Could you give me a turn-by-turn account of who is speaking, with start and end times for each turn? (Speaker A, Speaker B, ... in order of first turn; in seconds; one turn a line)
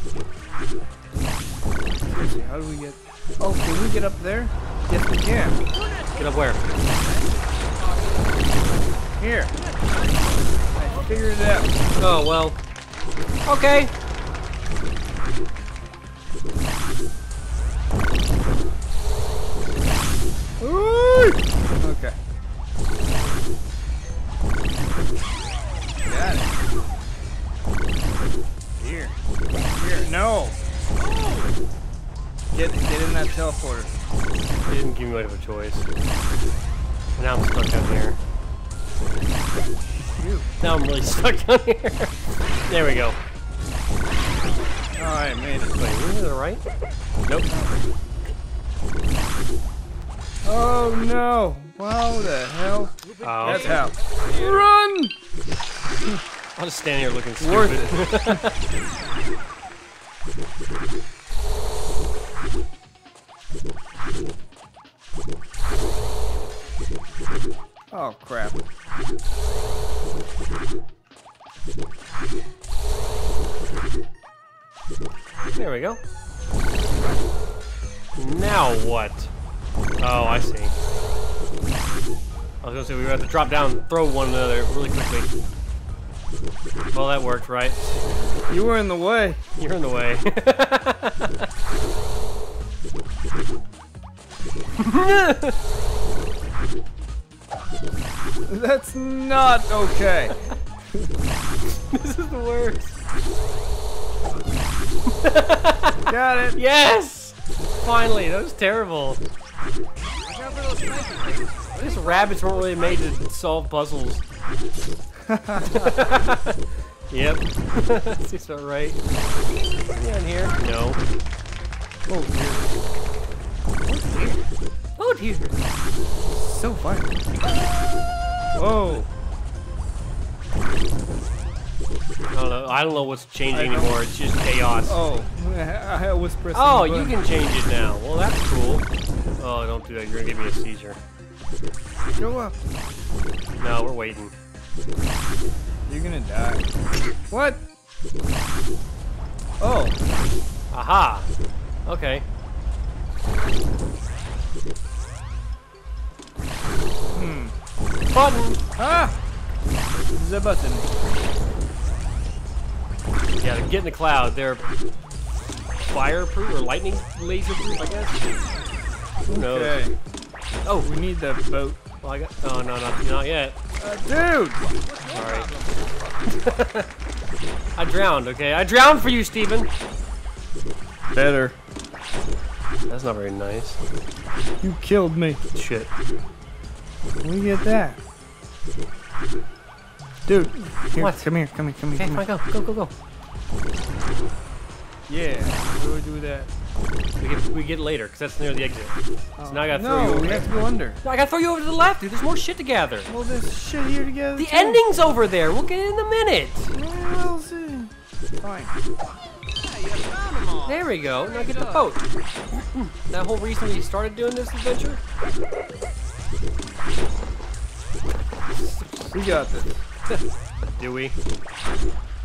Speaker A: 2.1-5.6
Speaker B: 5.7-8.8
Speaker C: 6.2-6.6
Speaker A: 9.2-9.5
Speaker B: 9.5-11.4
Speaker A: 10.8-11.8
Speaker C: 12.0-12.6
Speaker C: 13.4-13.9
Speaker A: 20.6-22.1
Speaker A: 26.1-26.6
Speaker A: 28.8-29.1
Speaker A: 29.8-30.6
Speaker B: 30.9-31.5
Speaker A: 32.5-33.9
Speaker C: 34.6-35.9
Speaker C: 37.2-38.2
Speaker A: 39.8-40.5
Speaker C: 40.6-42.1
Speaker C: 42.7-43.2
Speaker A: 44.9-46.0
Speaker C: 45.8-46.6
Speaker A: 47.5-47.8
Speaker A: 50.4-55.1
Speaker B: 53.0-54.7
Speaker C: 53.2-53.8
Speaker C: 56.5-58.6
Speaker A: 57.4-58.4
Speaker A: 67.9-68.6
Speaker C: 75.5-76.0
Speaker C: 78.1-79.3
Speaker C: 80.0-80.7
Speaker C: 82.6-85.3
Speaker C: 86.9-88.0
Speaker A: 88.5-89.4
Speaker C: 89.6-91.5
Speaker C: 94.8-95.6
Speaker A: 98.5-100.3
Speaker C: 101.9-102.9
Speaker C: 105.1-109.2
Speaker A: 106.1-106.6
Speaker B: 110.2-113.0
Speaker C: 111.8-114.2
Speaker A: 115.2-116.2
Speaker C: 115.6-119.0
Speaker C: 119.9-121.0
Speaker A: 122.1-122.7
Speaker A: 123.8-124.4
Speaker C: 125.0-125.6
Speaker A: 126.3-127.1
Speaker A: 128.5-129.1
Speaker C: 132.3-135.0
Speaker A: 133.5-134.0
Speaker A: 134.9-137.2
Speaker C: 136.5-138.9
Speaker C: 139.4-141.0
Speaker A: 142.2-142.6
Speaker C: 143.6-144.3
Speaker A: 145.9-146.6
Speaker A: 147.3-147.6
Speaker A: 149.6-150.0
Speaker C: 150.7-151.3
Speaker C: 151.8-152.2
Speaker A: 157.1-157.5
Speaker C: 158.1-158.6
Speaker A: 158.8-159.2
Speaker A: 160.1-160.9
Speaker C: 163.4-164.6
Speaker C: 165.9-168.2
Speaker A: 169.3-169.9
Speaker C: 169.3-169.8
Speaker C: 170.6-170.9
Speaker A: 170.8-171.8
Speaker C: 172.0-173.6
Speaker A: 173.8-174.7
Speaker B: 174.7-175.8
Speaker C: 175.1-175.5
Speaker C: 176.3-176.9
Speaker C: 177.8-179.7
Speaker A: 181.1-181.5
Speaker C: 182.9-183.8
Speaker A: 184.6-185.4
Speaker C: 185.5-185.9
Speaker A: 187.2-188.0
Speaker A: 190.2-192.2
Speaker C: 191.0-191.2
Speaker C: 192.0-192.9
Speaker A: 195.1-196.5
Speaker C: 197.2-200.5
Speaker A: 199.4-201.0
Speaker C: 201.0-203.1
Speaker A: 203.1-204.8
Speaker C: 204.3-206.7
Speaker A: 206.7-208.8
Speaker B: 209.6-211.9
Speaker C: 210.7-212.0
Speaker C: 212.6-215.0
Speaker A: 218.5-219.8
Speaker C: 220.8-221.1